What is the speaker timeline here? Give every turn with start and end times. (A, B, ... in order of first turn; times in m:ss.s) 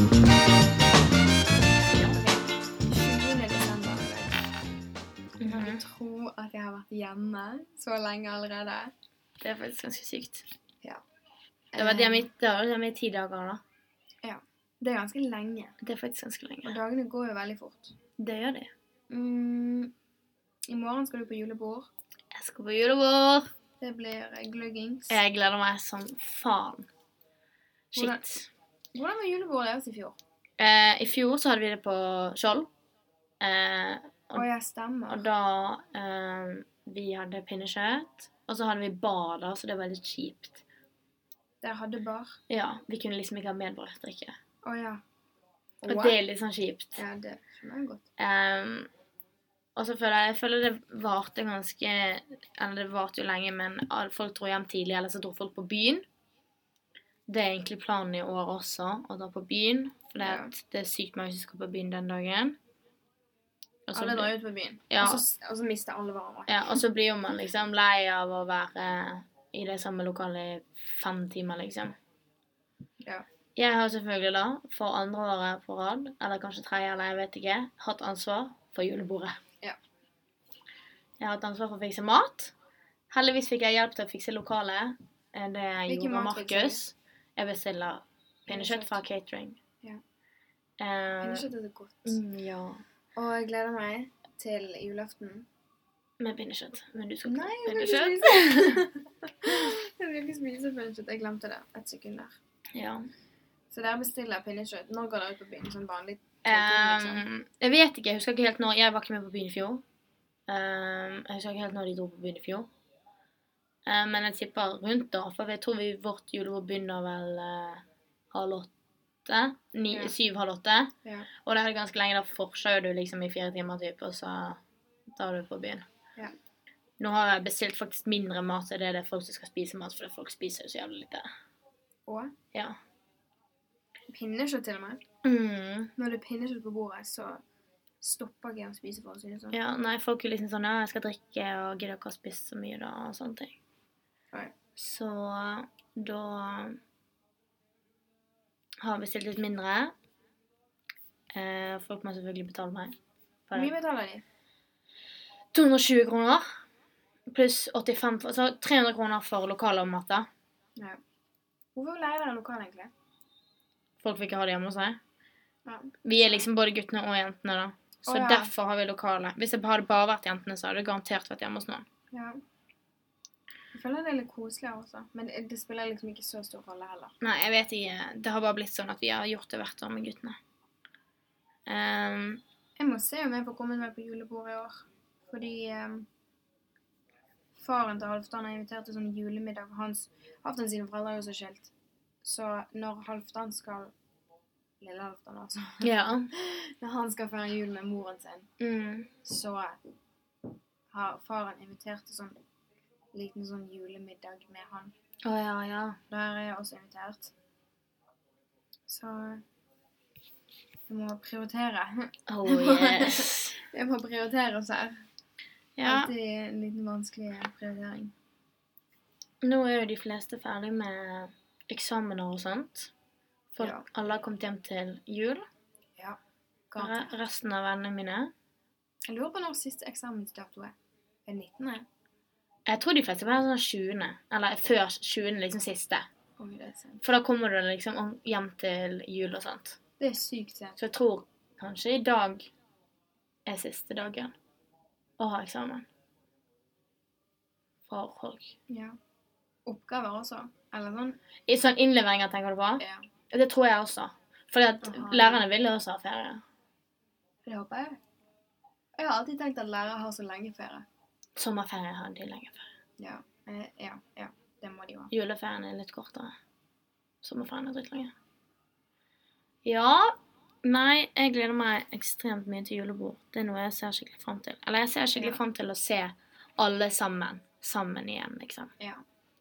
0:01.9-0:02.2 A
0:02.1-0:04.4 B
0:05.4-0:05.8 A
0:05.4-0:08.9 B
0:09.4-0:10.5 A
0:11.7-0:12.3 B
0:11.8-0:13.6 A
0:14.2-0:15.8 B
0:15.8-0:16.8 A
0:16.6-0:18.0 B
0:18.2-0:18.7 A
0:19.1-0:19.9 B
0:20.7-0:21.9 B
0:22.3-0:23.5 A
0:23.8-0:25.2 B
0:25.1-0:26.9 A
0:27.9-0:28.3 B
0:28.0-0:28.5 A
0:28.9-0:30.2 B
0:30.6-0:32.7 A
0:33.4-0:34.4 A
0:34.3-0:35.2 B
0:35.1-0:40.6 A
0:41.6-0:42.4 B
0:42.5-0:44.4 A
0:44.6-0:45.0 B
0:45.8-0:46.2 B
0:45.9-0:47.0 A
0:47.0-0:48.0 B
0:48.2-0:48.9 A
0:49.8-0:56.0 A
0:57.3-1:02.6 A
1:00.2-1:00.5 B
1:03.9-1:04.3 A
1:03.9-1:06.8 B
1:04.9-1:05.2 A
1:06.5-1:12.0 A
1:13.6-1:19.4 A
1:21.2-1:22.5 A
1:23.1-1:29.6 A
1:25.9-1:26.8 B
1:28.5-1:29.0 B
1:30.8-1:31.4 A
1:31.2-1:32.2 B
1:32.0-1:32.8 A
1:33.2-1:35.5 B
1:36.2-1:38.8 A
1:37.2-1:42.4 B
1:42.7-1:43.1 A
1:43.7-1:47.2 B
1:46.4-1:49.8 A
1:50.5-1:52.7 A
1:53.8-1:58.7 A
1:59.2-2:04.6 A
2:05.1-2:05.8 A
2:07.0-2:11.2 A
2:12.1-2:12.3 B
2:14.1-2:15.0 B
2:15.2-2:15.9 A
2:16.0-2:17.4 B
2:18.0-2:19.6 B
2:19.5-2:23.6 A
2:24.8-2:26.8 A
2:28.8-2:29.9 A
2:31.3-2:32.9 A
2:33.5-2:33.7 A
2:33.5-2:34.2 B
2:35.5-2:36.5 A
2:37.3-2:40.3 A
2:41.7-2:42.9 B
2:44.0-2:45.0 A
2:45.6-2:46.5 B
2:46.0-2:51.8 A
2:48.0-2:48.5 B
2:52.1-2:52.4 B
2:53.7-2:57.1 B
2:57.2-3:00.4 A
3:01.6-3:02.4 A
3:02.8-3:06.1 B
3:07.5-3:11.7 B
3:12.2-3:13.9 B
3:14.8-3:18.5 B
3:15.8-3:16.3 A
3:18.6-3:19.1 A
3:19.2-3:19.8 B
3:20.9-3:22.4 B
3:23.1-3:24.9 B
3:25.2-3:26.0 A
3:26.1-3:27.3 B
3:28.9-3:29.4 B
3:30.9-3:35.0 B
3:32.3-3:33.6 A
3:35.8-3:36.1 A
3:35.8-3:38.1 B
3:39.4-3:42.9 A
3:43.5-3:45.5 A
3:43.6-3:43.8 B
3:46.7-3:47.1 B
3:46.8-3:48.3 A
3:49.1-3:50.7 B
3:51.2-3:51.9 B
3:52.6-3:56.1 A
3:56.4-3:57.0 B
3:57.0-3:59.8 A
4:00.0-4:00.8 B
4:00.8-4:02.5 A
4:03.4-4:04.3 A
4:05.2-4:05.8 A
4:07.9-4:08.5 A
4:08.7-4:09.0 B
4:09.7-4:11.2 B
4:11.5-4:16.4 A
4:12.8-4:13.0 B
4:14.8-4:15.5 B
4:17.4-4:18.0 B
4:19.0-4:20.9 B
4:21.4-4:22.7 A
4:23.0-4:25.1 B
4:25.1-4:26.3 A
4:27.2-4:28.1 A
4:29.6-4:38.7 A